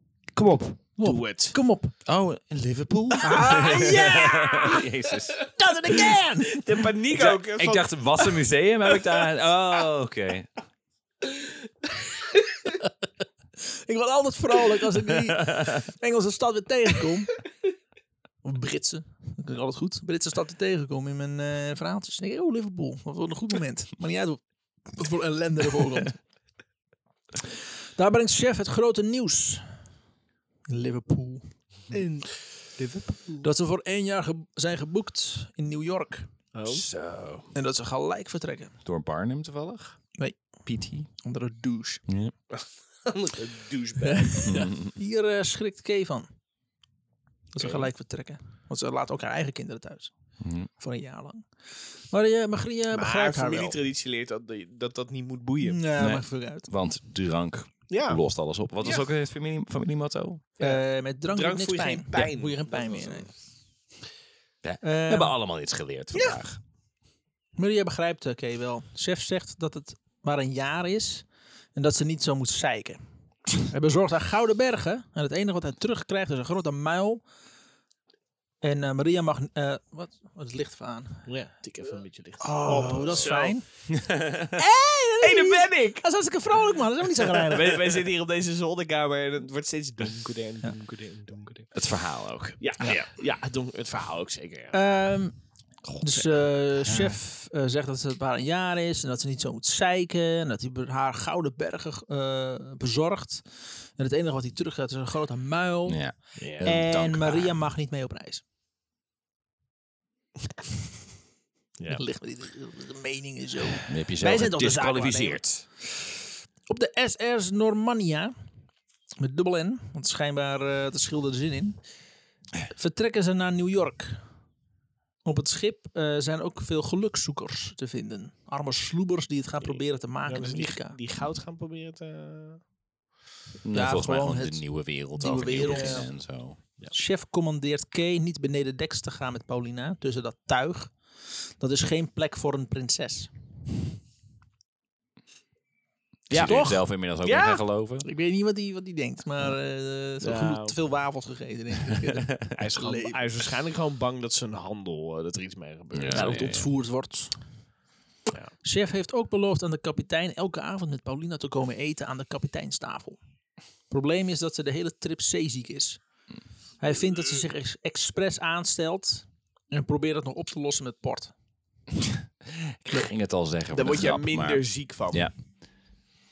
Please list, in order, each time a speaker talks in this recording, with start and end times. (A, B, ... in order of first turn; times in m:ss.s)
0:00.4-0:01.6 A
0:01.0-0:01.9 B
0:02.1-0:05.4 C
0:03.2-0:04.8 B
0:03.4-0:04.8 A
0:05.4-0:08.4 A
0:05.5-0:06.6 B
0:07.1-0:10.5 C
0:11.2-0:11.5 A
0:12.1-0:12.4 A
0:13.6-0:17.4 B
0:15.3-0:15.7 C
0:18.4-0:26.2 B
0:28.0-0:29.6 B
0:30.7-0:31.4 B
0:31.9-0:33.5 A
0:33.4-0:36.3 B
0:36.5-0:36.9 A
0:36.7-0:37.5 C
0:37.6-0:38.8 B
0:38.8-0:40.0 C
0:40.2-0:42.0 B
0:40.6-0:41.1 C
0:42.1-0:42.3 C
0:42.5-0:44.7 A
0:44.1-0:46.3 B
0:44.5-0:44.9 C
0:47.5-0:50.1 B
0:47.6-0:47.9 A
0:50.4-0:50.7 C
0:50.8-0:51.5 B
0:52.1-0:53.8 B
0:52.9-0:55.8 A
0:55.6-0:56.7 B
0:56.0-1:00.4 C
0:57.9-0:58.2 A
0:58.8-0:59.1 A
1:00.6-1:03.3 A
1:00.6-1:03.3 B
1:04.6-1:06.6 C
1:04.8-1:05.3 B
1:07.6-1:17.2 B
1:18.6-1:21.3 B
1:21.3-1:23.6 A
1:22.4-1:23.6 B
1:23.9-1:24.6 C
1:24.6-1:27.8 B
1:25.2-1:26.0 A
1:27.2-1:31.7 A
1:31.7-1:32.6 C
1:32.6-1:34.8 A
1:34.7-1:35.4 B
1:36.0-1:43.4 B
1:36.9-1:37.1 C
1:44.0-1:46.0 B
1:45.9-1:47.5 C
1:46.4-1:46.7 A
1:46.6-1:48.4 B
1:51.9-1:55.4 B
1:53.8-1:55.6 C
1:56.7-1:58.3 B
1:59.2-2:01.8 B
2:02.7-2:04.2 B
2:05.2-2:11.0 B
2:09.6-2:12.6 A
2:13.6-2:16.6 C
2:13.7-2:16.1 B
2:15.5-2:16.1 A
2:16.9-2:23.3 B
2:26.3-2:26.6 A
2:26.3-2:28.1 C
2:26.3-2:26.8 B
2:27.2-2:27.6 A
2:28.0-2:33.2 B
2:30.2-2:30.8 A
2:32.6-2:36.5 A
2:35.9-2:36.7 C
2:36.1-2:37.4 B
2:38.6-2:43.2 B
2:43.9-2:46.0 B
2:46.8-2:51.3 B
2:52.0-2:55.3 C
2:53.7-2:55.3 A